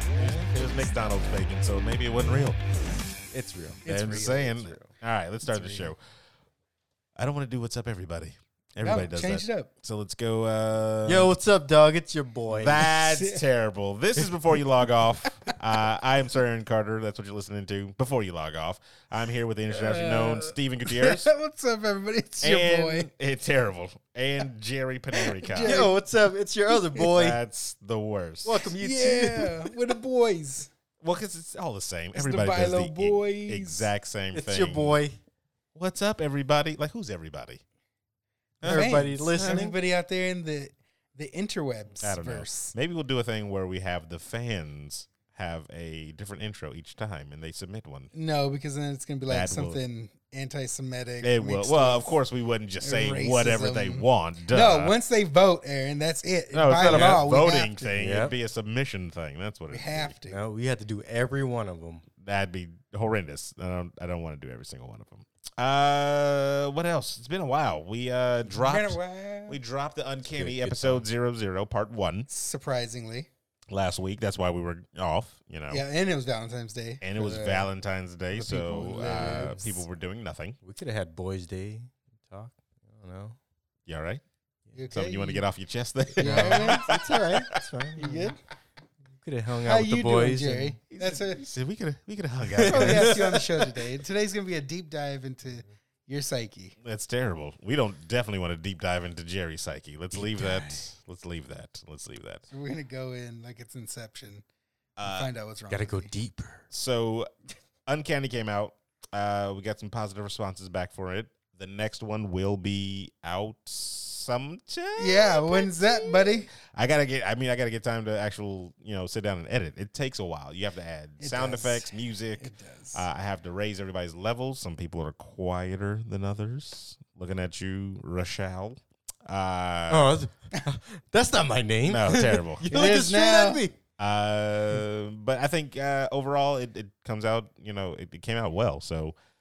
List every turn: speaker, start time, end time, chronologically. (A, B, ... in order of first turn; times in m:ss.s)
0:00.2-0:00.8 A
0:00.2-0:02.6 B
0:03.3-0:04.9 A
0:03.8-0:04.5 C
0:03.8-0:06.0 B
0:05.5-0:05.9 A
0:07.2-0:11.3 B
0:08.8-0:09.7 C
0:11.0-0:12.9 A
0:12.5-0:21.3 B
0:12.9-0:13.4 C
0:19.7-0:23.1 C
0:22.4-0:25.8 B
0:25.2-0:25.9 C
0:25.6-0:27.4 A
0:26.7-0:27.0 C
0:27.0-0:28.7 B
0:28.4-0:29.8 A
0:28.8-0:30.7 C
0:31.0-0:35.0 B
0:32.1-0:33.9 C
0:34.3-0:35.2 A
0:35.7-0:37.6 B
0:38.6-0:39.5 B
0:38.6-0:39.8 A
0:38.6-0:42.7 C
0:42.0-0:48.1 B
0:48.1-0:52.2 C
0:49.3-0:49.8 B
0:51.2-0:54.9 B
0:52.8-0:57.9 C
0:56.5-1:00.1 B
0:56.8-0:57.2 A
0:58.0-0:58.3 A
0:59.7-1:00.4 C
1:00.3-1:02.0 A
1:02.2-1:12.3 B
1:08.5-1:09.6 C
1:10.3-1:11.0 A
1:12.3-1:13.3 C
1:13.7-1:15.8 B
1:15.7-1:17.7 C
1:17.0-1:20.6 B
1:18.4-1:19.8 C
1:18.5-1:19.7 A
1:20.6-1:23.4 A
1:23.9-1:24.2 B
1:24.7-1:25.4 C
1:24.9-1:27.0 B
1:26.2-1:28.3 A
1:26.2-1:26.9 C
1:28.0-1:28.4 C
1:29.2-1:30.8 A
1:29.6-1:31.4 C
1:30.9-1:33.4 B
1:32.5-1:33.8 A
1:32.6-1:36.7 C
1:36.8-1:42.4 B
1:40.1-1:40.8 A
1:42.5-1:44.4 C
1:45.0-1:45.3 B
1:45.0-1:46.1 C
1:45.7-1:46.6 A
1:46.7-1:47.3 B
1:47.8-2:10.1 B
1:55.0-1:56.5 C
2:01.2-2:03.0 C
2:09.9-2:13.8 A
2:11.8-2:12.9 B
2:12.7-2:13.6 C
2:14.0-2:19.1 B